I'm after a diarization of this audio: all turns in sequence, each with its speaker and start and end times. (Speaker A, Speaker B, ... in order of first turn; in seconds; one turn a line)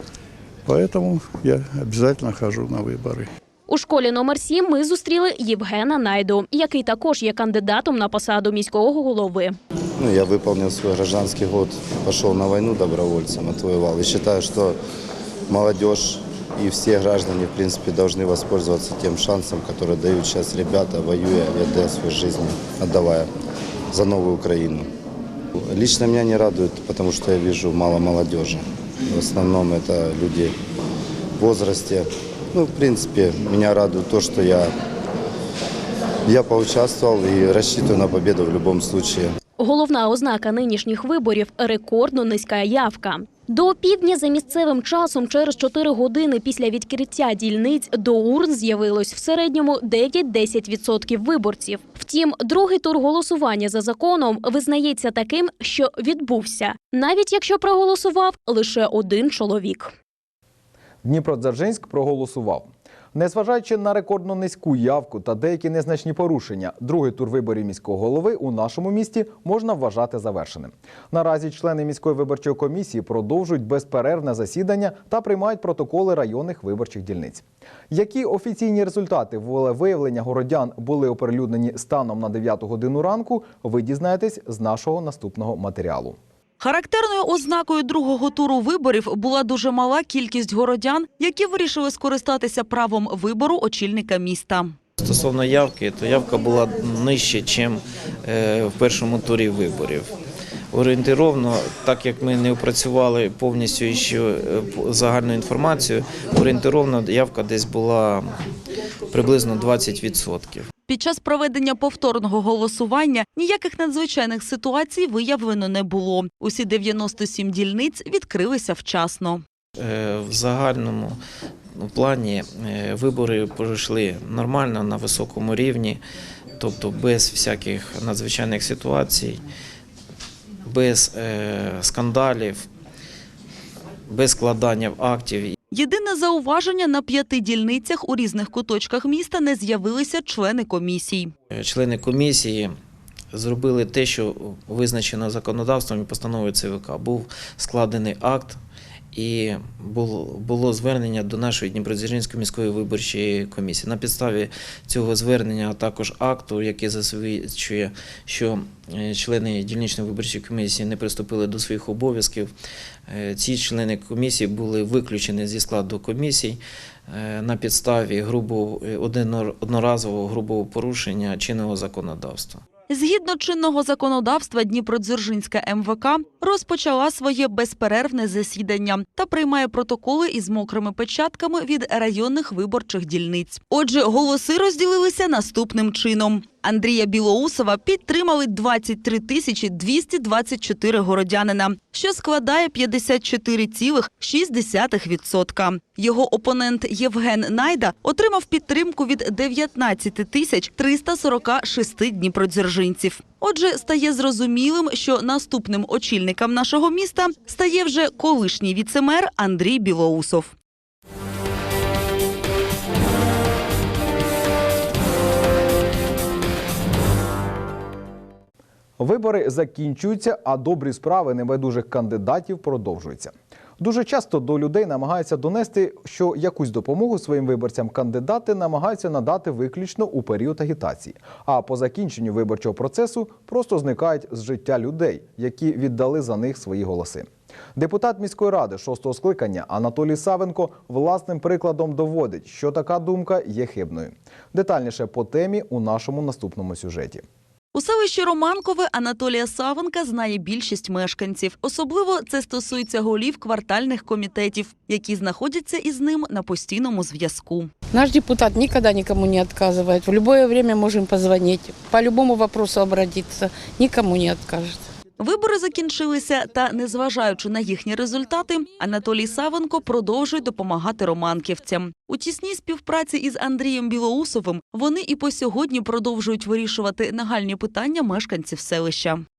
Speaker A: 0.7-3.2
Speaker B: 3.7-9.6
Speaker C: 10.0-14.8
Speaker C: 15.5-23.3
Speaker C: 23.9-24.9
Speaker C: 25.7-30.5
Speaker C: 31.4-34.7
Speaker C: 36.3-39.3
Speaker B: 39.6-59.9
Speaker D: 61.0-86.2
Speaker E: 86.6-94.7
Speaker F: 95.0-100.1
Speaker F: 100.7-108.3
Speaker F: 109.1-110.7
Speaker E: 110.9-119.4
Speaker F: 119.8-121.2
Speaker F: 121.8-126.0
Speaker F: 126.6-129.4
Speaker F: 130.7-132.7
Speaker F: 134.1-135.6
Speaker E: 135.7-141.3
Speaker F: 141.5-142.7
Speaker F: 143.3-148.6
Speaker F: 149.1-162.5
Speaker F: 163.1-172.6
Speaker E: 172.9-210.6
Speaker D: 219.0-247.2
Speaker E: 247.7-257.7
Speaker G: 257.9-264.8
Speaker E: 265.2-279.2